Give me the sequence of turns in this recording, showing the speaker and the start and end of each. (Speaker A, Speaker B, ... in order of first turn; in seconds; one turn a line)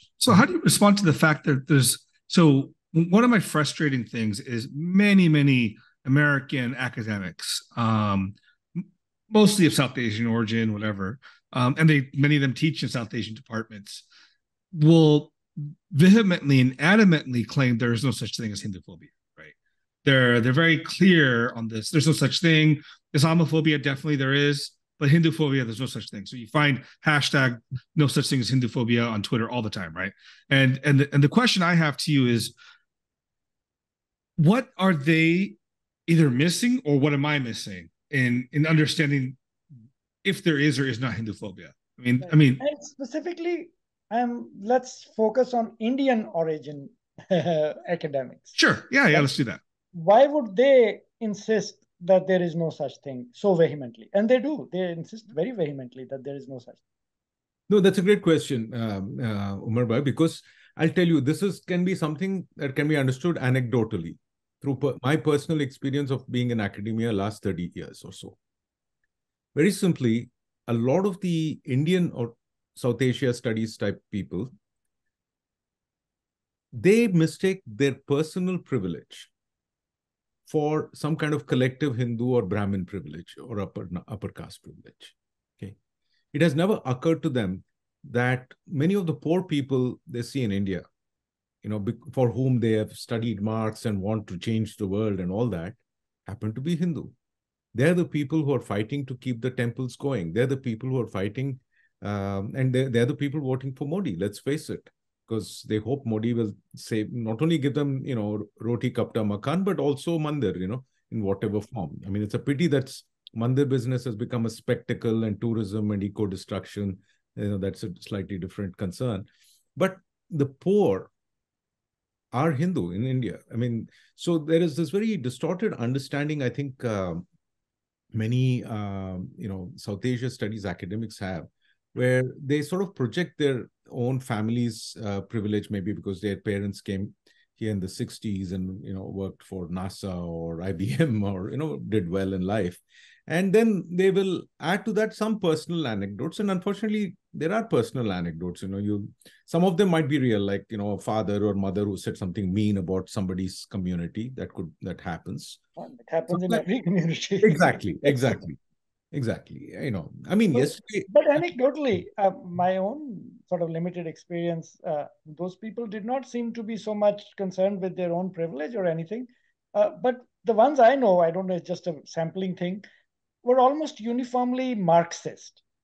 Speaker A: 0.2-14.0
Speaker A: 14.7-19.5
Speaker A: 20.0-32.5
Speaker A: 34.4-39.4
Speaker A: 40.2-42.6
Speaker B: 42.2-48.6
Speaker A: 48.5-49.6
Speaker B: 49.9-56.8
Speaker C: 57.7-68.4
Speaker C: 69.5-74.5
Speaker C: 76.7-79.3
Speaker C: 80.5-85.8
Speaker C: 86.3-90.8
Speaker C: 91.6-97.1
Speaker C: 97.7-121.1
Speaker C: 122.3-127.2
Speaker C: 128.1-155.6
Speaker B: 155.8-158.4
Speaker C: 156.3-156.6
Speaker C: 157.4-158.6
Speaker C: 159.1-161.1
Speaker B: 160.5-172.8
Speaker B: 173.4-175.6